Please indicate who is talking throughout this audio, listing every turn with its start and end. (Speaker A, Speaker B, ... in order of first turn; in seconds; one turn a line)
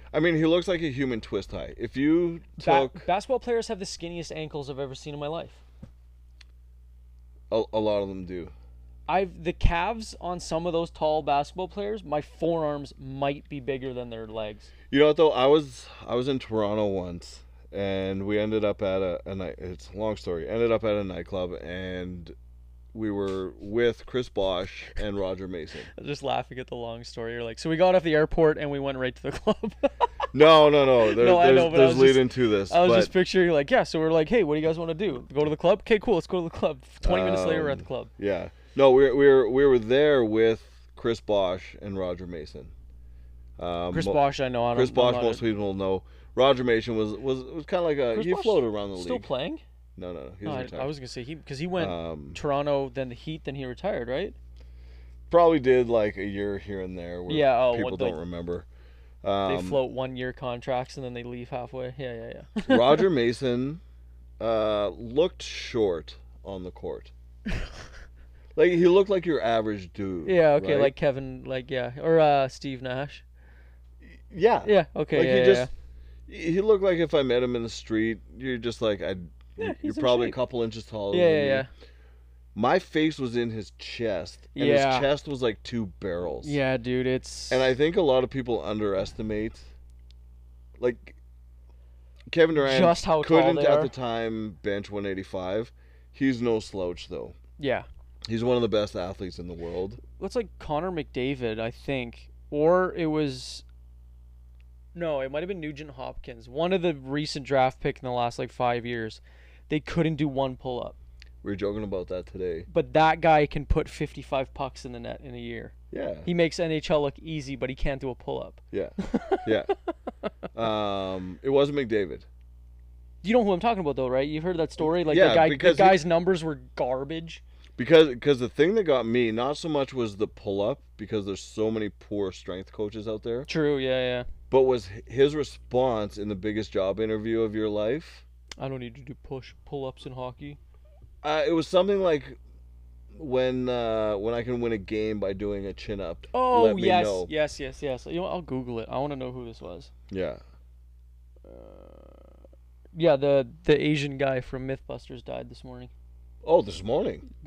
Speaker A: 0.1-3.1
Speaker B: 2.6-5.6
Speaker A: 7.5-8.5
Speaker B: 9.1-14.7
Speaker A: 14.9-22.3
Speaker A: 22.9-25.9
Speaker B: 25.9-30.1
Speaker A: 30.3-33.1
Speaker B: 31.1-38.1
Speaker A: 37.0-42.7
Speaker A: 43.6-49.3
Speaker B: 43.9-45.4
Speaker B: 48.1-49.6
Speaker A: 50.0-50.9
Speaker B: 50.5-54.4
Speaker A: 51.8-52.4
Speaker A: 55.3-58.7
Speaker B: 57.3-58.2
Speaker A: 59.2-59.8
Speaker B: 59.5-63.1
Speaker A: 62.6-63.8
Speaker A: 64.4-67.1
Speaker A: 68.6-70.9
Speaker B: 70.2-73.2
Speaker A: 74.2-75.7
Speaker B: 74.6-75.7
Speaker A: 76.3-81.7
Speaker B: 79.6-80.4
Speaker B: 81.1-81.7
Speaker A: 82.5-86.6
Speaker B: 84.5-85.1
Speaker B: 86.4-87.7
Speaker A: 87.5-89.7
Speaker A: 90.8-91.2
Speaker A: 92.3-97.3
Speaker B: 92.5-93.9
Speaker B: 97.6-97.9
Speaker A: 98.3-100.0
Speaker B: 100.1-103.7
Speaker B: 104.9-111.0
Speaker A: 111.4-112.7
Speaker B: 112.7-115.7
Speaker A: 115.9-116.3
Speaker B: 116.3-119.5
Speaker A: 118.7-119.7
Speaker A: 120.5-122.3
Speaker B: 123.2-127.4
Speaker A: 124.8-126.0
Speaker A: 127.8-133.5
Speaker B: 133.5-134.3
Speaker A: 134.5-138.2
Speaker B: 138.6-140.6
Speaker A: 141.2-142.4
Speaker A: 143.2-147.3
Speaker B: 146.3-149.9
Speaker A: 150.1-150.4
Speaker B: 151.4-152.3
Speaker B: 152.9-155.9
Speaker A: 156.4-157.3